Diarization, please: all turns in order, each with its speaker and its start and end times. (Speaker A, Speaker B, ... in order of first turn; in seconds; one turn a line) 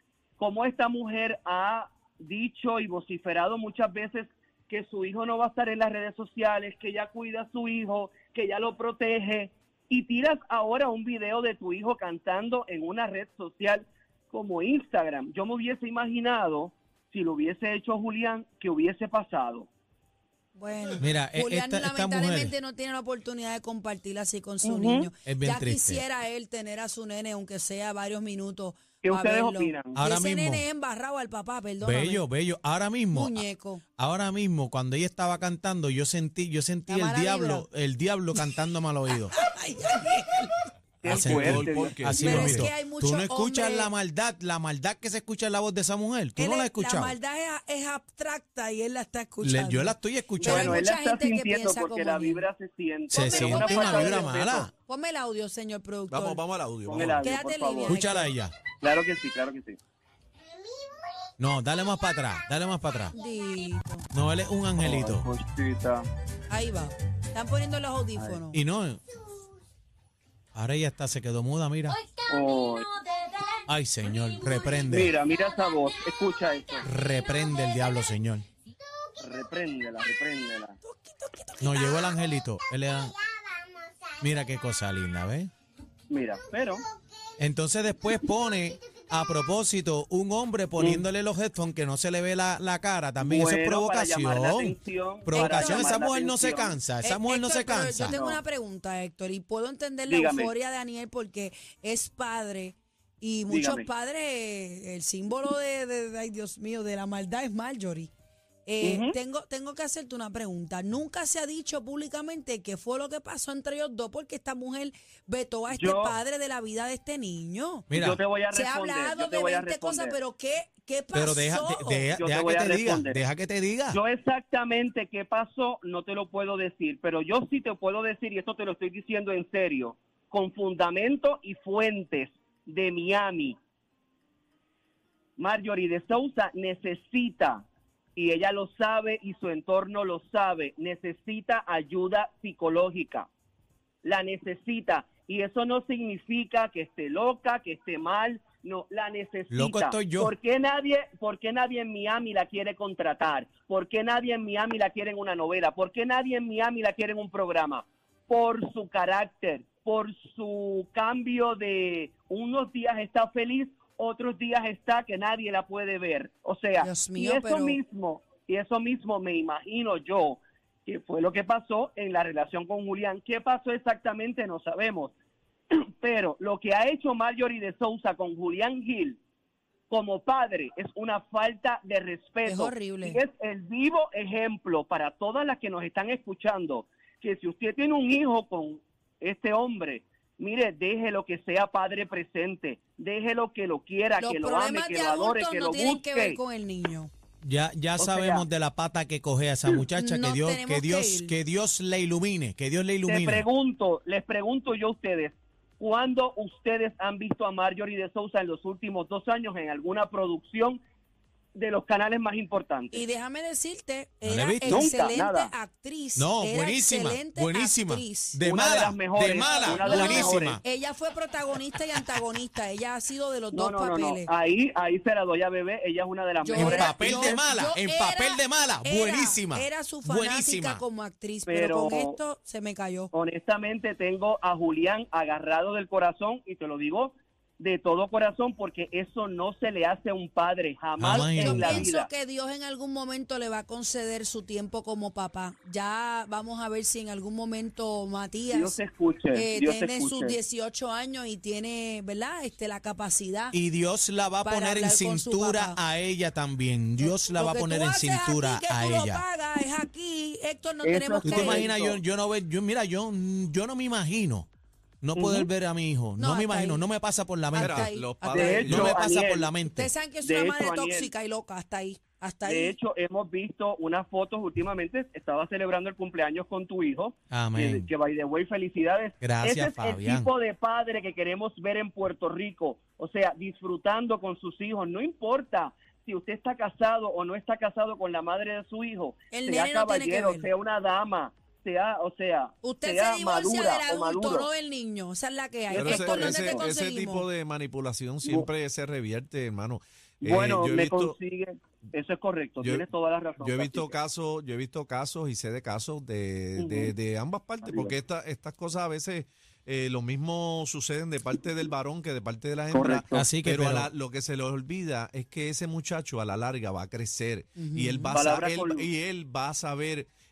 Speaker A: 0.4-19.7
Speaker B: 20.6-32.2
Speaker C: 21.0-22.5
Speaker A: 24.6-25.1
Speaker C: 25.3-26.0
Speaker A: 29.0-30.0
Speaker C: 29.9-30.6
Speaker C: 31.8-33.4
Speaker B: 33.1-33.8
Speaker C: 34.0-39.4
Speaker B: 36.9-37.6
Speaker B: 39.1-40.7
Speaker A: 41.0-42.6
Speaker D: 41.0-42.7
Speaker C: 41.1-47.2
Speaker B: 42.1-43.9
Speaker B: 46.4-52.4
Speaker C: 49.4-50.8
Speaker A: 50.4-54.7
Speaker C: 53.1-54.7
Speaker B: 53.2-56.4
Speaker D: 56.1-57.2
Speaker A: 56.9-58.0
Speaker B: 57.2-58.3
Speaker C: 57.9-58.5
Speaker A: 58.8-59.8
Speaker C: 61.4-63.1
Speaker B: 63.1-64.1
Speaker C: 64.1-65.2
Speaker A: 64.8-66.1
Speaker B: 66.5-68.6
Speaker C: 68.5-69.0
Speaker C: 70.5-72.0
Speaker A: 72.3-72.9
Speaker C: 73.7-75.1
Speaker A: 74.9-76.8
Speaker C: 76.8-78.5
Speaker A: 79.2-80.8
Speaker B: 80.8-82.2
Speaker C: 81.6-83.1
Speaker C: 84.2-85.5
Speaker A: 86.1-86.8
Speaker C: 87.4-98.2
Speaker A: 90.8-91.0
Speaker A: 93.2-96.8
Speaker B: 95.3-96.0
Speaker B: 97.0-108.1
Speaker A: 98.1-98.4
Speaker A: 100.1-100.5
Speaker A: 103.5-103.9
Speaker B: 108.7-117.9
Speaker A: 108.8-109.2
Speaker A: 115.7-116.2
Speaker C: 117.9-118.2
Speaker A: 117.9-120.2
Speaker B: 118.5-122.1
Speaker C: 121.1-124.0
Speaker A: 122.2-123.2
Speaker A: 123.9-133.6
Speaker A: 135.4-143.3
Speaker A: 144.0-175.1
Speaker C: 149.5-150.3
Speaker B: 166.8-167.8
Speaker A: 175.7-179.2
Speaker A: 179.9-196.4
Speaker B: 182.5-183.2
Speaker B: 194.2-197.1
Speaker C: 197.4-203.4
Speaker A: 198.0-198.5
Speaker B: 200.0-201.3
Speaker A: 203.1-210.8
Speaker A: 211.6-213.1
Speaker B: 212.9-218.4
Speaker C: 214.2-215.0
Speaker A: 214.7-215.5
Speaker C: 216.2-220.6
Speaker A: 218.4-220.6
Speaker B: 219.4-224.3
Speaker A: 223.5-227.4
Speaker B: 226.4-233.1
Speaker C: 226.5-230.8
Speaker A: 231.5-232.2
Speaker A: 233.1-242.1
Speaker C: 241.0-241.9
Speaker B: 241.3-248.8
Speaker A: 248.5-250.4
Speaker B: 249.3-253.6
Speaker C: 253.5-259.2
Speaker B: 254.4-255.8
Speaker B: 257.0-261.7
Speaker A: 260.8-262.0
Speaker C: 261.2-264.5
Speaker C: 265.0-267.9
Speaker A: 265.2-265.5
Speaker B: 266.2-266.9
Speaker B: 267.5-268.8
Speaker D: 267.6-269.0
Speaker A: 268.3-269.5
Speaker C: 268.7-269.9
Speaker B: 269.6-272.8
Speaker A: 270.2-271.1
Speaker A: 272.4-294.5
Speaker C: 277.3-277.9
Speaker C: 279.2-280.3
Speaker B: 289.3-290.5
Speaker B: 292.6-297.3
Speaker A: 295.7-296.6
Speaker D: 295.7-301.2
Speaker A: 298.2-298.5
Speaker A: 300.2-304.0
Speaker D: 302.6-302.9
Speaker D: 303.4-320.1
Speaker A: 306.6-306.9
Speaker A: 307.6-307.9
Speaker A: 312.7-313.3
Speaker C: 313.1-313.9
Speaker B: 317.6-318.1
Speaker A: 318.1-318.9